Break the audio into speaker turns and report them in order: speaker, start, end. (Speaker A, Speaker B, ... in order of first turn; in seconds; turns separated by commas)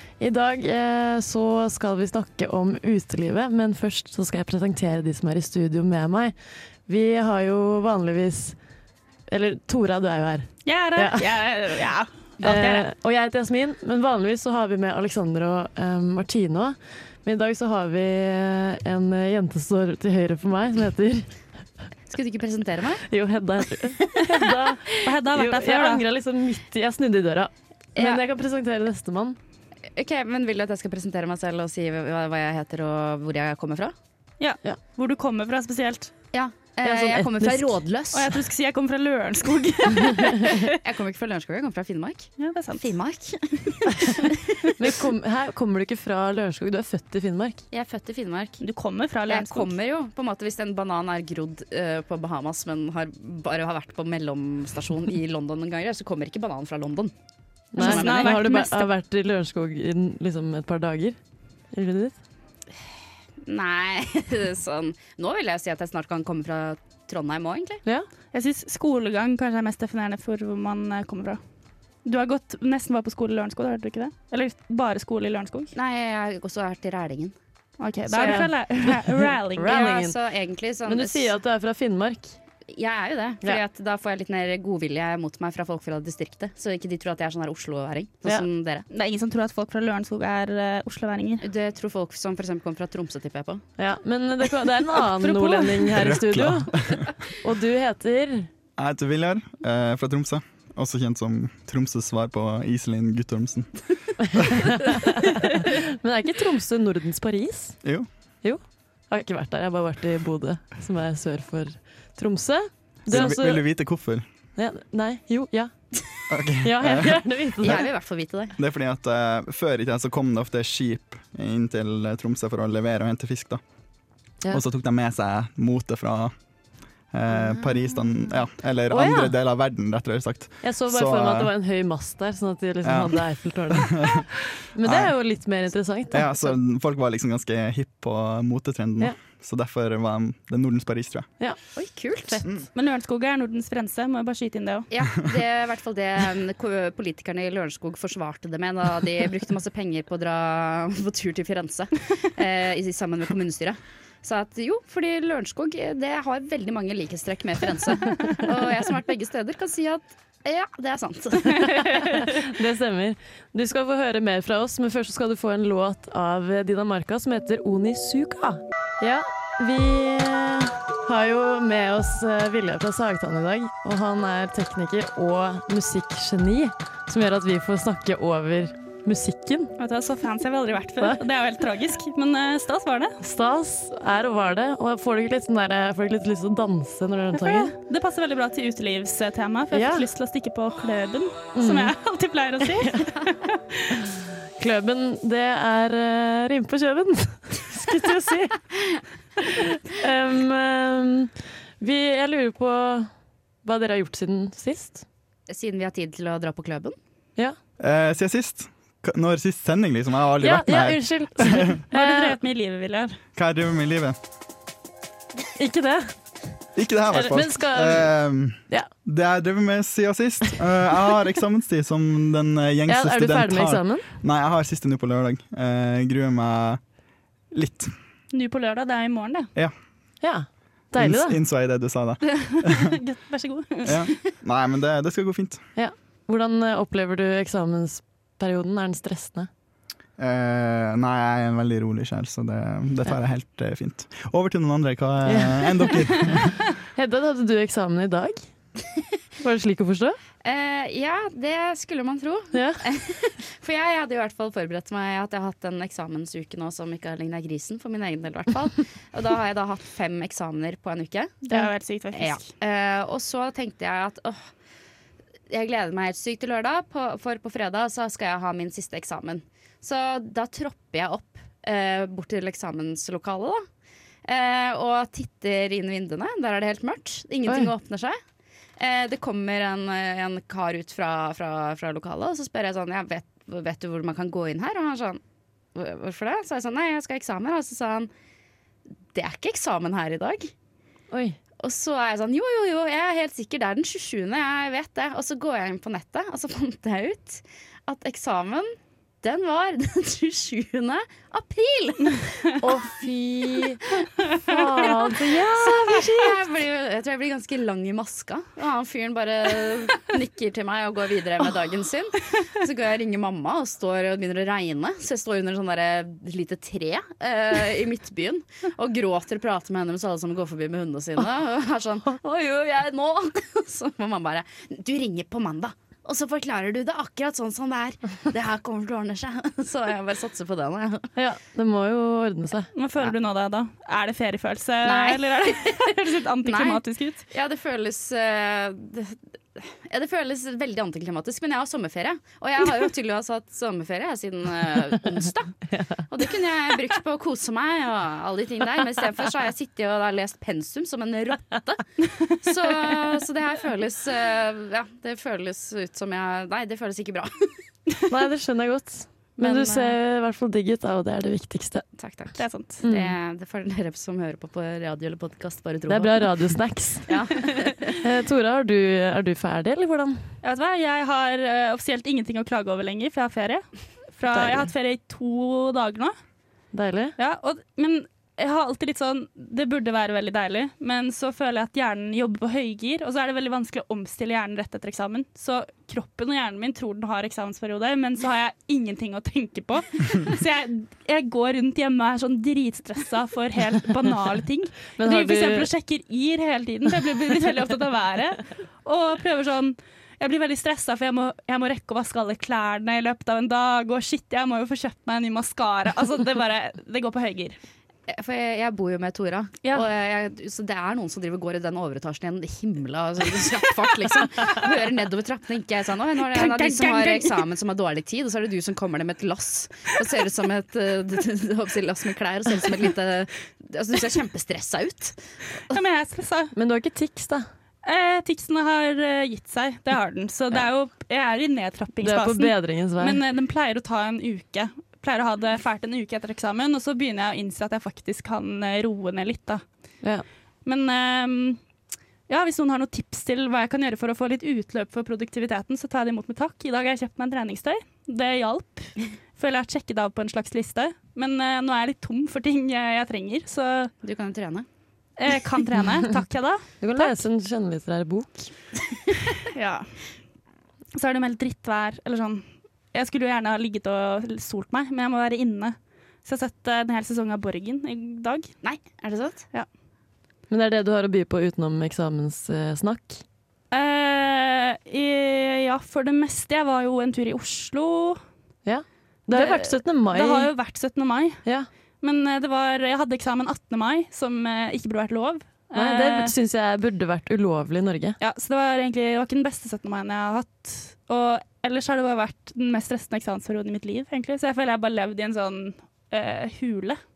Speaker A: 0.2-6.3, Speaker A: 6.9-8.6, Speaker A: 9.3-11.3, Speaker B: 10.6-12.8, Speaker A: 12.4-21.3, Speaker C: 22.1-23.0, Speaker A: 23.1-29.4, Speaker B: 24.9-26.0, Speaker C: 27.9-28.2, Speaker C: 29.9-33.9, Speaker B: 34.4-36.1, Speaker C: 36.3-38.3, Speaker A: 36.8-37.8, Speaker B: 38.1-40.7, Speaker C: 40.5-44.7, Speaker B: 42.4-42.9, Speaker A: 44.8-47.6, Speaker C: 47.7-48.6, Speaker B: 48.6-49.7, Speaker C: 49.3-57.1, Speaker A: 57.7-61.2, Speaker C: 57.8-58.5, Speaker B: 57.8-58.9, Speaker A: 61.7-62.1, Speaker C: 63.4-67.8, Speaker B: 68.3-71.4, Speaker B: 72.0-75.7, Speaker C: 75.7-77.3, Speaker B: 77.8-80.0, Speaker C: 78.1-78.4, Speaker A: 78.1-80.2, Speaker C: 79.7-81.3, Speaker A: 80.8-82.3, Speaker C: 82.7-88.8, Speaker B: 88.9-91.5, Speaker C: 91.4-93.6, Speaker A: 93.8-96.7, Speaker B: 95.2-95.8, Speaker D: 95.9-97.1, Speaker A: 97.4-98.5, Speaker D: 98.8-103.8, Speaker A: 104.2-107.8, Speaker D: 104.3-104.7, Speaker A: 108.4-113.7, Speaker D: 113.1-114.2, Speaker A: 114.5-115.7, Speaker D: 116.3-117.2, Speaker A: 116.6-117.9, Speaker C: 117.6-118.6, Speaker D: 118.6-123.6, Speaker D: 124.5-126.3, Speaker D: 127.1-131.5, Speaker C: 127.5-128.1, Speaker A: 128.9-129.3, Speaker A: 130.6-134.2, Speaker D: 132.8-134.3, Speaker A: 134.7-136.6, Speaker D: 134.8-135.1, Speaker D: 136.1-141.3, Speaker C: 141.7-142.5, Speaker B: 142.7-144.9, Speaker C: 144.9-162.3, Speaker A: 161.8-179.7, Speaker B: 179.8-183.2, Speaker A: 183.2-187.7, Speaker B: 187.4-194.0, Speaker A: 189.7-190.1, Speaker A: 191.6-191.9, Speaker A: 192.7-193.1, Speaker A: 194.6-198.6, Speaker A: 199.4-203.1, Speaker A: 203.6-205.0, Speaker C: 205.5-206.9, Speaker D: 207.8-211.8, Speaker A: 210.4-212.4, Speaker B: 211.9-213.2, Speaker D: 213.3-214.2, Speaker A: 215.5-216.1, Speaker D: 216.7-226.8, Speaker A: 217.1-218.1, Speaker A: 222.9-224.1, Speaker D: 227.5-227.9, Speaker B: 228.3-229.5, Speaker A: 230.2-231.4, Speaker D: 230.9-232.9, Speaker B: 232.3-234.1, Speaker D: 233.8-235.6, Speaker A: 235.8-239.5, Speaker D: 240.2-246.6, Speaker A: 245.2-246.0, Speaker A: 246.9-248.4, Speaker A: 249.4-250.2, Speaker C: 250.4-261.4, Speaker A: 252.5-252.8, Speaker B: 261.4-262.4, Speaker C: 262.1-264.4, Speaker C: 265.5-273.6, Speaker C: 274.2-278.2, Speaker C: 278.8-285.2, Speaker C: 285.7-288.1, Speaker C: 289.1-290.5, Speaker A: 291.1-291.4, Speaker C: 291.6-302.9, Speaker A: 302.6-303.8, Speaker C: 304.0-331.1, Speaker A: 304.3-306.4, Speaker A: 331.1-332.7, Speaker B: 332.7-337.2, Speaker C: 334.8-335.8, Speaker C: 336.4-357.5, Speaker A: 345.7-346.0, Speaker A: 358.1-361.9, Speaker C: 359.4-359.9, Speaker C: 361.9-366.5, Speaker B: 362.4-362.8, Speaker A: 362.8-363.1, Speaker A: 365.9-367.3, Speaker C: 367.1-368.0, Speaker A: 367.9-370.2, Speaker B: 370.4-376.1, Speaker A: 374.3-374.7, Speaker A: 376.7-377.1, Speaker B: 377.2-407.6, Speaker A: 395.0-395.7, Speaker C: 408.1-425.2, Speaker B: 409.6-409.9, Speaker B: 416.2-417.4, Speaker B: 425.7-426.5, Speaker A: 426.5-427.4, Speaker B: 427.8-439.6, Speaker A: 432.0-433.2, Speaker B: 440.6-441.6, Speaker B: 442.3-453.9, Speaker C: 454.0-454.6, Speaker B: 455.2-457.2, Speaker A: 456.8-458.3, Speaker B: 459.4-459.9, Speaker B: 460.9-468.5, Speaker C: 468.6-469.4, Speaker A: 470.5-473.2, Speaker B: 473.7-478.2, Speaker A: 478.6-480.5, Speaker B: 479.3-481.4, Speaker B: 482.0-486.3, Speaker A: 485.7-488.2, Speaker B: 488.2-497.0